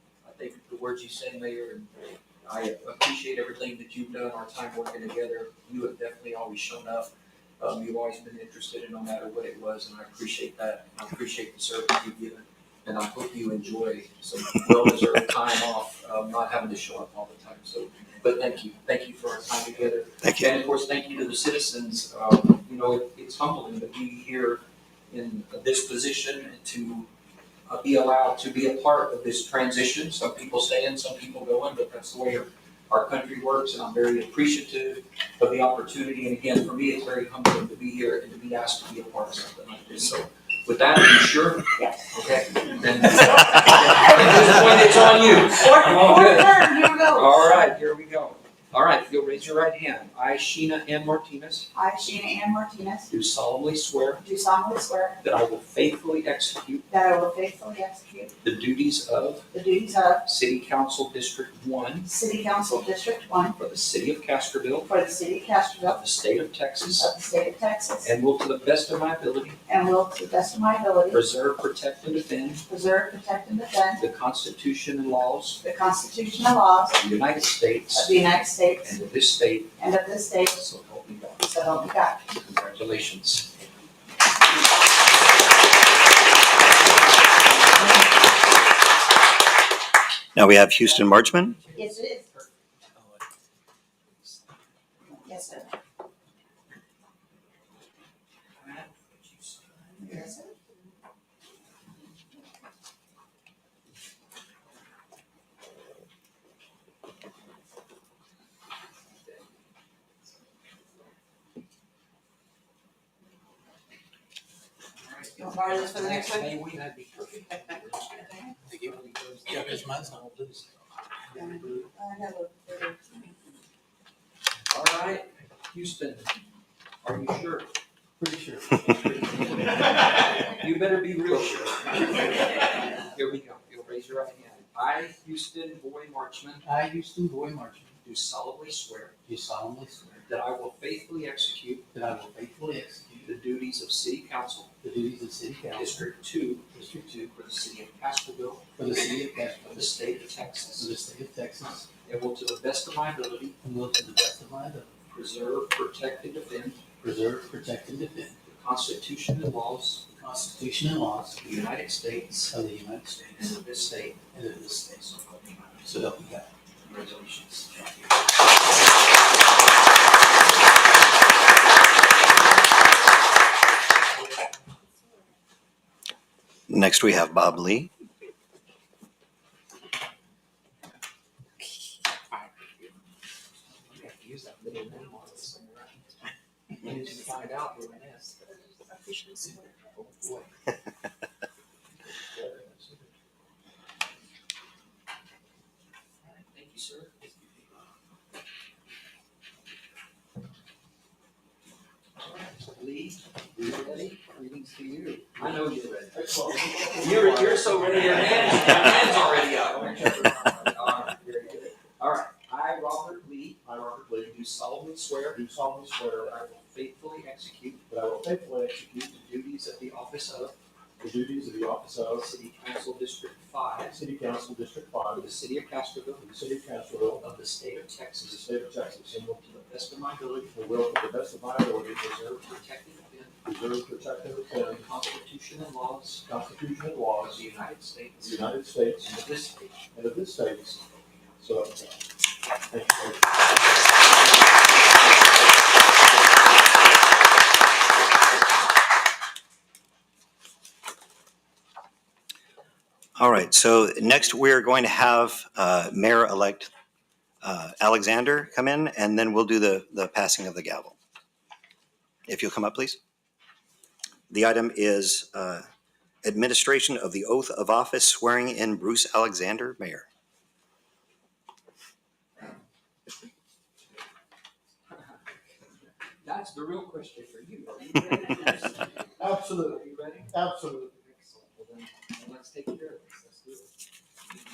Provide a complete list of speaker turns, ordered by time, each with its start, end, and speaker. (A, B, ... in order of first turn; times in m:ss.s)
0:00.2-0:27.1 A
0:20.2-0:20.5 B
0:27.7-0:51.7 A
0:41.8-0:42.1 C
0:45.5-0:47.5 C
0:51.7-0:53.1 C
0:53.1-0:54.2 A
0:54.2-0:55.2 C
0:55.2-0:56.9 A
0:56.9-0:58.3 C
0:58.4-0:59.5 A
0:59.5-1:00.3 C
1:00.2-1:02.1 A
1:02.0-1:03.6 C
1:03.6-1:04.9 A
1:04.8-1:06.0 C
1:05.8-1:07.1 A
1:06.9-1:08.1 C
1:08.0-1:09.6 A
1:09.7-1:11.2 C
1:11.1-1:12.6 A
1:12.6-1:14.0 C
1:14.0-1:15.6 A
1:15.6-1:17.0 C
1:17.0-1:19.8 A
1:17.9-1:19.0 C
1:19.8-1:20.6 C
1:20.5-1:21.6 A
1:21.4-1:22.2 C
1:22.3-1:23.9 A
1:26.6-1:28.1 A
1:30.3-1:31.6 B
1:30.7-1:33.2 A
1:31.8-1:32.2 C
1:34.1-1:34.4 A
1:35.2-1:35.7 C
1:38.6-1:40.4 A
1:40.0-1:40.5 C
1:55.0-2:01.8 A
1:55.4-1:56.5 C
1:58.2-1:58.5 C
1:58.7-2:00.6 D
2:01.3-2:03.3 C
2:04.7-2:06.3 A
2:07.0-2:07.7 A
2:08.2-2:08.8 D
2:08.7-2:16.6 A
2:16.6-2:18.0 D
2:18.0-2:19.2 A
2:19.3-2:20.0 D
2:20.0-2:21.9 A
2:21.9-2:23.4 D
2:23.2-2:24.7 A
2:24.8-2:26.1 D
2:25.7-2:26.6 A
2:26.7-2:27.3 D
2:27.2-2:28.7 A
2:28.8-2:30.0 D
2:29.6-2:30.9 A
2:30.6-2:31.9 D
2:32.0-2:33.6 A
2:33.6-2:35.0 D
2:35.1-2:36.8 A
2:37.0-2:38.4 D
2:38.4-2:40.0 A
2:40.1-2:41.4 D
2:41.4-2:42.5 A
2:42.5-2:43.6 D
2:43.2-2:46.0 A
2:44.3-2:44.8 D
2:45.8-2:46.5 D
2:46.8-2:48.0 A
2:56.7-2:57.9 B
3:03.8-3:10.5 A
3:12.2-3:13.1 A
3:16.2-3:17.6 A
3:22.2-3:35.4 A
3:25.4-3:29.0 E
3:29.6-3:30.7 E
3:33.6-3:34.4 E
3:35.3-3:36.3 E
3:36.1-3:37.8 A
3:37.9-3:39.2 E
3:39.1-3:40.6 A
3:41.0-3:42.3 E
3:42.1-3:44.0 A
3:43.9-3:45.3 E
3:45.1-3:46.4 A
3:46.2-3:47.2 E
3:47.2-3:50.5 A
3:48.2-3:49.2 E
3:50.4-3:52.4 E
3:52.4-3:53.4 A
3:53.4-3:54.9 E
3:54.5-3:56.3 A
3:56.2-3:57.4 E
3:57.1-3:59.8 A
3:58.2-3:59.1 E
3:59.9-4:00.8 E
4:01.4-4:01.9 E
4:02.7-4:03.3 E
4:13.2-4:16.7 B
4:17.4-4:21.0 B
4:22.3-4:23.0 B
4:24.3-4:25.6 B
4:26.2-4:30.0 B
4:34.9-4:35.2 A
4:36.2-4:43.7 A
4:39.2-4:40.9 E